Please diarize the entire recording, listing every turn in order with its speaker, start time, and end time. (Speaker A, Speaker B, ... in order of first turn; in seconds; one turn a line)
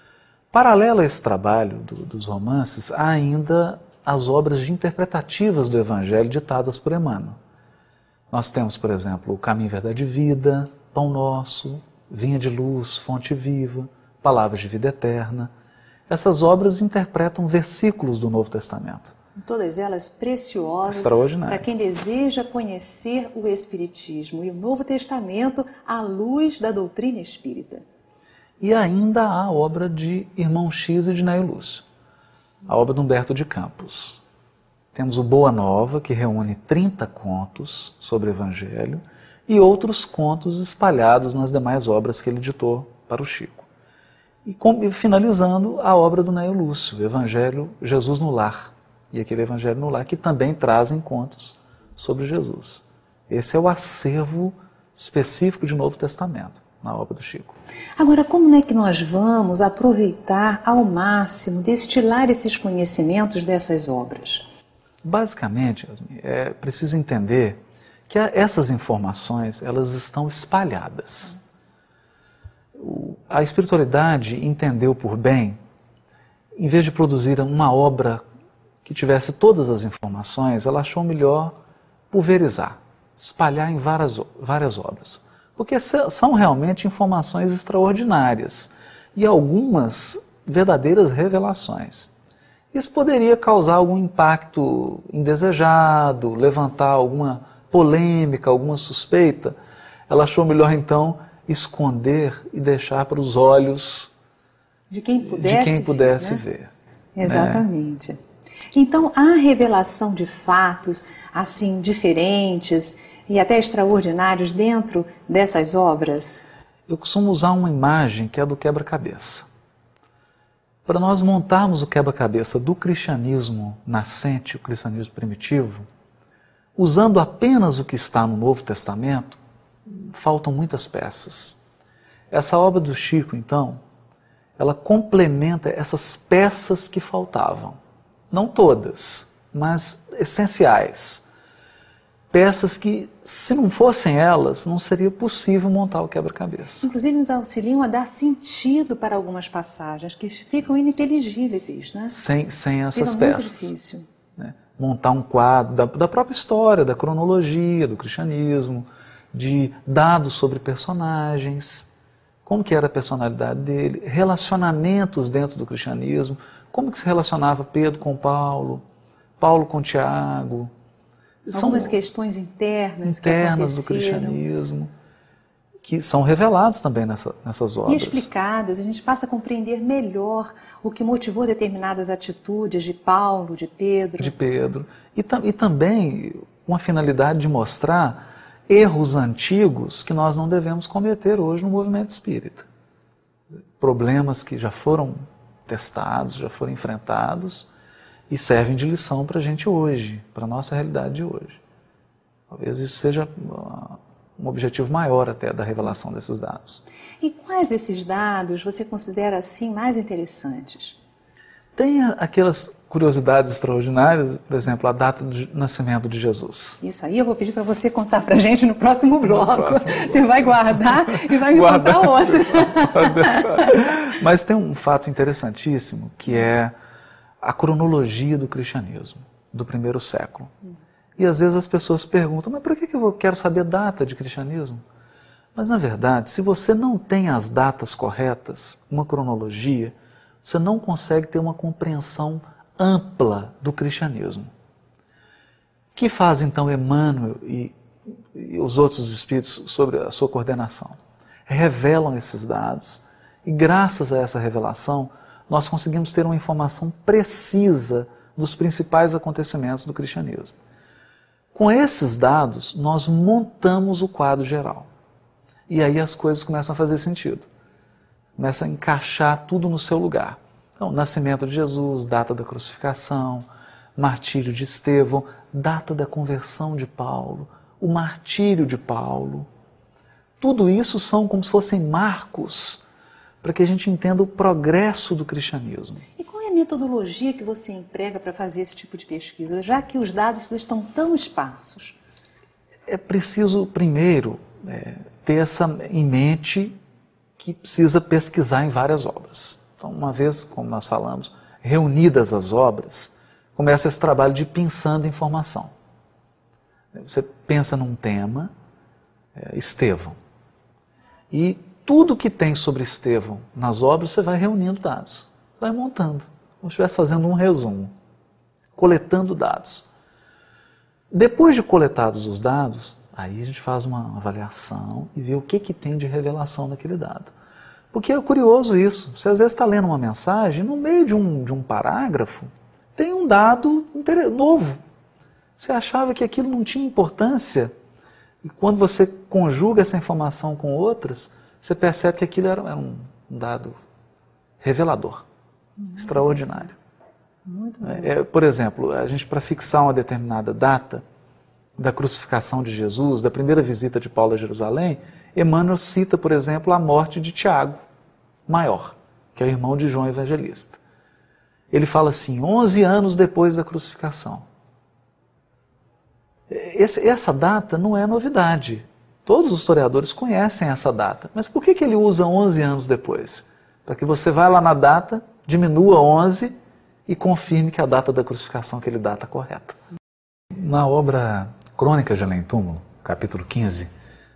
Speaker A: 0.5-7.3
Speaker A: 8.3-15.5
Speaker A: 16.1-19.1
Speaker B: 19.4-27.8
Speaker A: 20.9-21.7
Speaker A: 28.6-31.9
Speaker A: 32.7-34.2
Speaker A: 34.9-43.7
Speaker A: 44.5-57.5
Speaker B: 58.0-64.5
Speaker A: 65.0-71.4
Speaker A: 72.8-75.6
Speaker A: 76.6-78.2
Speaker A: 78.8-81.5
Speaker A: 82.1-92.1
Speaker A: 92.7-99.5
Speaker A: 100.1-104.1
Speaker B: 104.9-106.4
Speaker A: 105.3-106.7
Speaker B: 107.2-108.2
Speaker A: 107.2-107.6
Speaker B: 108.7-116.5
Speaker A: 116.9-119.5
Speaker A: 120.9-125.8
Speaker A: 126.8-131.6
Speaker A: 132.3-133.8
Speaker A: 134.6-137.8
Speaker A: 138.3-141.2
Speaker A: 142.3-146.9
Speaker B: 146.8-152.2
Speaker A: 152.1-153.7
Speaker B: 152.9-154.1
Speaker A: 154.4-161.9
Speaker A: 162.5-168.8
Speaker A: 169.4-170.7
Speaker A: 171.5-171.9
Speaker B: 171.5-174.4
Speaker A: 173.0-174.9
Speaker A: 175.8-178.3
Speaker B: 177.9-184.3
Speaker A: 184.2-192.7
Speaker A: 193.8-197.7
Speaker A: 198.3-201.6
Speaker A: 202.5-206.8
Speaker B: 207.2-211.0
Speaker A: 211.8-216.8
Speaker B: 216.8-223.5
Speaker A: 219.2-226.7
Speaker A: 227.4-230.5
Speaker A: 231.2-234.8
Speaker A: 235.6-244.5
Speaker A: 245.9-247.8
Speaker A: 248.3-260.6
Speaker A: 261.6-264.9
Speaker A: 265.7-267.5
Speaker A: 268.4-273.5
Speaker A: 274.0-279.5
Speaker A: 280.4-282.8
Speaker A: 283.4-286.1
Speaker B: 286.2-292.0
Speaker A: 292.9-296.7
Speaker A: 297.4-305.7
Speaker A: 306.9-308.5
Speaker A: 309.4-310.2
Speaker A: 311.3-317.9
Speaker A: 318.8-319.9
Speaker A: 321.1-327.3
Speaker A: 327.9-334.8
Speaker A: 335.6-337.7
Speaker A: 338.4-343.8
Speaker A: 344.6-345.2
Speaker B: 345.8-346.7
Speaker A: 346.0-346.7
Speaker B: 347.5-348.1
Speaker A: 347.8-351.0
Speaker A: 351.8-357.8
Speaker A: 358.5-360.8
Speaker A: 361.7-364.5
Speaker A: 366.5-376.5
Speaker A: 377.1-379.8
Speaker A: 380.6-383.9